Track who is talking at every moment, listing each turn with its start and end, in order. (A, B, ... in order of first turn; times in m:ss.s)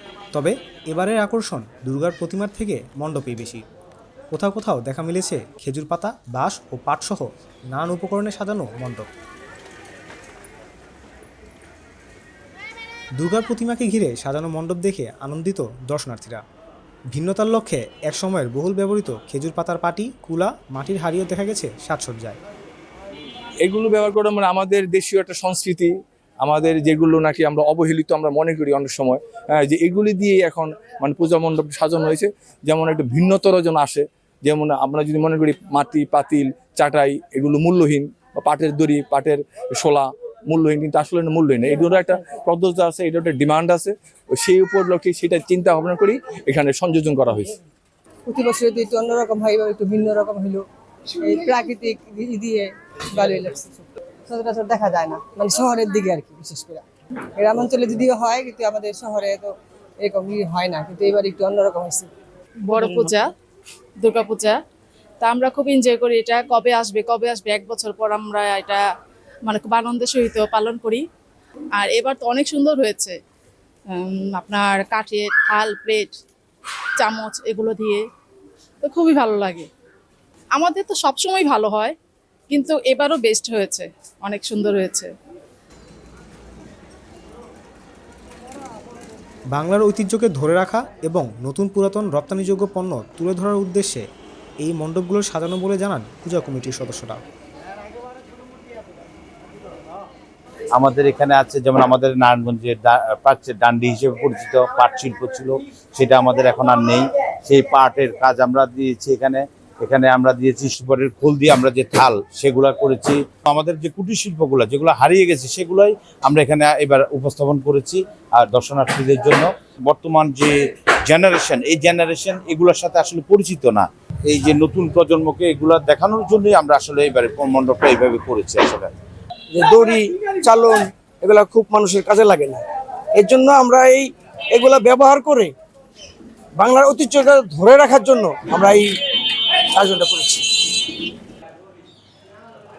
0:00.3-0:03.6 A
0:04.3-0:09.1 A
0:13.2-0:16.4 A
0:17.1-0:22.4 A
0:23.6-0:47.6 B
0:48.3-0:50.6 C
0:51.2-0:56.8 C
0:57.4-1:02.1 C
1:02.6-1:03.3 D
1:04.0-1:04.6 D
1:05.2-1:08.8 D
1:09.4-1:11.0 D
1:11.8-1:13.2 D
1:13.9-1:16.2 D
1:17.0-1:18.0 D
1:18.8-1:19.7 D
1:20.5-1:22.0 D
1:22.5-1:25.1 D
1:29.5-1:34.0 A
1:34.6-1:37.2 A
1:40.7-2:08.9 E
2:09.5-2:12.6 F
2:13.2-2:15.5 F
2:16.6-2:18.9 F
2:19.7-2:20.5 F